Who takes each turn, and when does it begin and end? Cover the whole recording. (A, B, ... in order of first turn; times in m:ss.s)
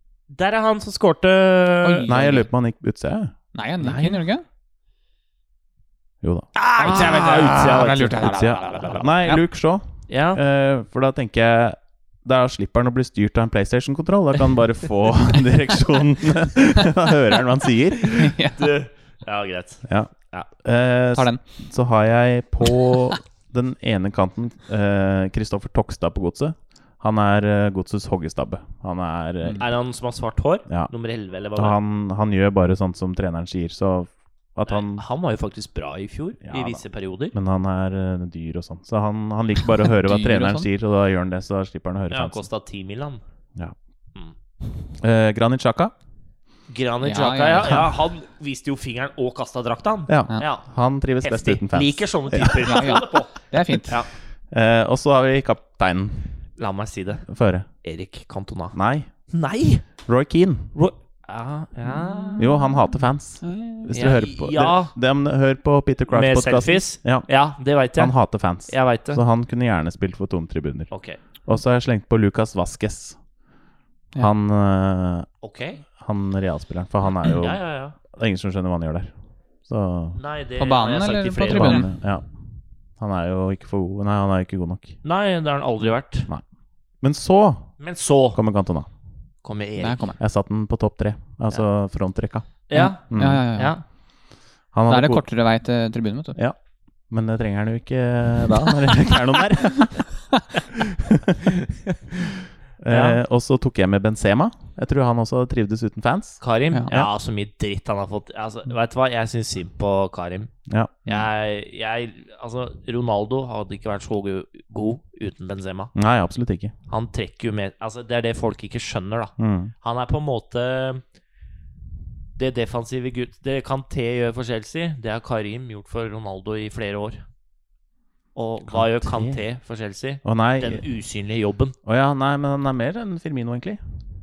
0:00.3-0:02.2 A
0:01.8-0:02.5 B
0:02.1-0:03.4 C
0:03.5-0:04.4 B
0:03.9-0:04.1 A
0:06.2-0:07.3 C
0:06.6-0:09.0 A
0:06.8-0:09.4 B
0:08.1-0:18.3 C
0:10.1-0:10.4 A
0:18.1-0:18.8 B
0:18.6-0:20.5 A
0:19.8-0:29.7 C
0:21.1-0:21.4 B
0:29.6-0:31.8 A
0:31.6-0:35.0 C
0:34.7-0:37.4 A
0:36.4-0:42.4 C
0:40.0-0:40.7 B
0:42.1-0:43.2 A
0:45.0-0:45.9 C
0:46.7-0:54.1 A
0:47.0-0:47.9 B
0:50.1-0:52.8 C
0:52.6-0:54.0 B
0:54.5-0:56.3 C
0:56.6-0:57.3 A
0:57.3-0:57.7 C
0:57.8-0:58.8 A
0:58.7-0:59.1 C
0:59.3-0:59.9 A
1:00.1-1:00.7 C
1:00.8-1:02.5 A
1:01.9-1:02.9 B
1:02.4-1:07.3 C
1:03.4-1:03.9 B
1:03.9-1:04.9 A
1:06.1-1:09.2 A
1:08.0-1:10.9 C
1:10.9-1:11.2 A
1:11.4-1:13.2 C
1:14.2-1:15.3 C
1:15.4-1:15.8 A
1:16.0-1:19.1 C
1:17.3-1:18.0 A
1:19.6-1:20.2 C
1:20.2-1:21.9 A
1:20.6-1:21.9 B
1:21.4-1:22.3 C
1:23.0-1:25.0 C
1:25.0-1:26.3 A
1:27.0-1:27.8 C
1:27.8-1:28.4 A
1:28.3-1:28.9 C
1:29.4-1:30.1 A
1:29.8-1:30.2 B
1:30.2-1:33.5 C
1:32.7-1:33.8 A
1:32.7-1:33.8 B
1:34.7-1:35.2 C
1:34.9-1:36.4 B
1:36.4-1:40.2 C
1:40.9-1:41.5 C
1:42.8-1:47.1 C
1:42.9-1:43.2 A
1:46.4-1:50.5 A
1:50.7-1:51.3 C
1:51.1-1:55.9 A
1:56.0-1:56.7 C
1:56.9-2:01.0 A
1:59.4-1:59.7 C
2:02.4-2:07.2 A
2:08.4-2:11.8 A
2:08.7-2:09.4 C
2:10.2-2:10.9 C
2:11.8-2:13.8 C